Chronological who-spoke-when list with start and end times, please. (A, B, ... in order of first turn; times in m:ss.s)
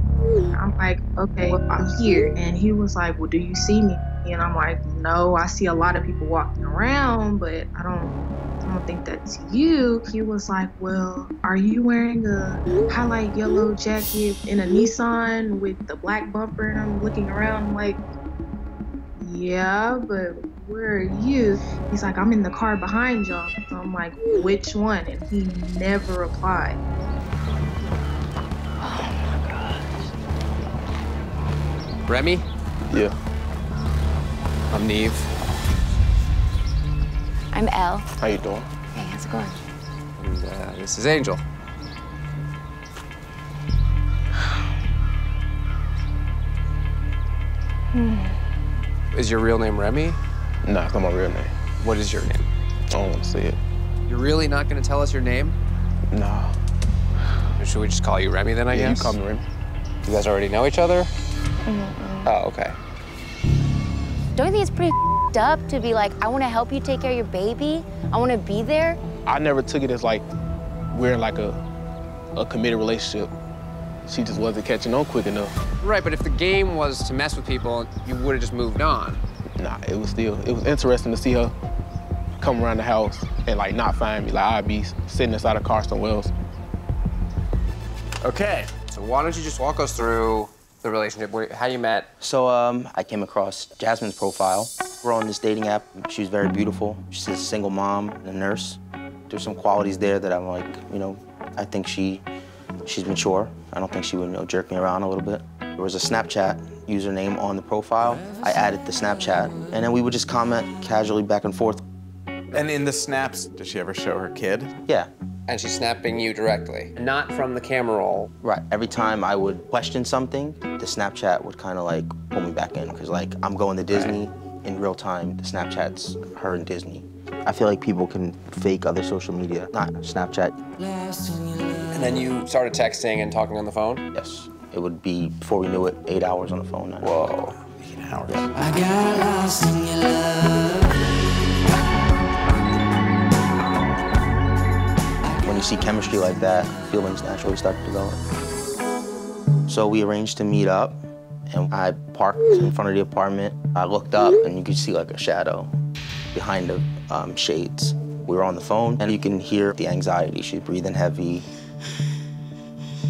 0:00.5-0:18.0 A
0:19.2-0:26.8 A
0:28.8-0:29.9 B
0:32.1-0:32.4 C
0:34.7-0:35.3 C
0:37.5-0:38.1 B
0:38.2-0:38.8 D
0:38.8-0:39.6 B
0:40.2-0:41.4 C
0:47.9-0:48.3 B
0:49.1-0:50.2 C
0:50.6-0:51.5 D
0:51.8-0:52.5 C
0:52.9-0:53.6 D
0:54.1-0:55.6 C
0:56.1-0:56.5 D
0:57.6-0:59.2 C
0:58.7-0:59.4 D
1:00.0-1:01.1 C
1:01.6-1:02.3 B
1:02.2-1:02.8 C
1:04.4-1:09.0 B
1:09.2-1:10.2 D
1:10.9-1:11.6 D
1:12.4-1:13.3 D
1:14.1-1:15.5 D
1:15.8-1:19.2 C
1:19.6-1:21.5 D
1:22.4-1:26.3 D
1:28.2-1:28.7 E
1:28.9-1:32.1 C
1:32.2-1:42.2 F
1:42.8-1:51.8 F
1:52.5-1:54.7 E
1:55.5-1:58.3 C
1:58.4-2:10.6 F
2:11.9-2:14.0 C
2:14.1-2:17.1 F
2:17.0-2:18.7 E
2:25.4-2:28.2 F
2:29.7-2:35.7 F
2:36.3-2:41.4 F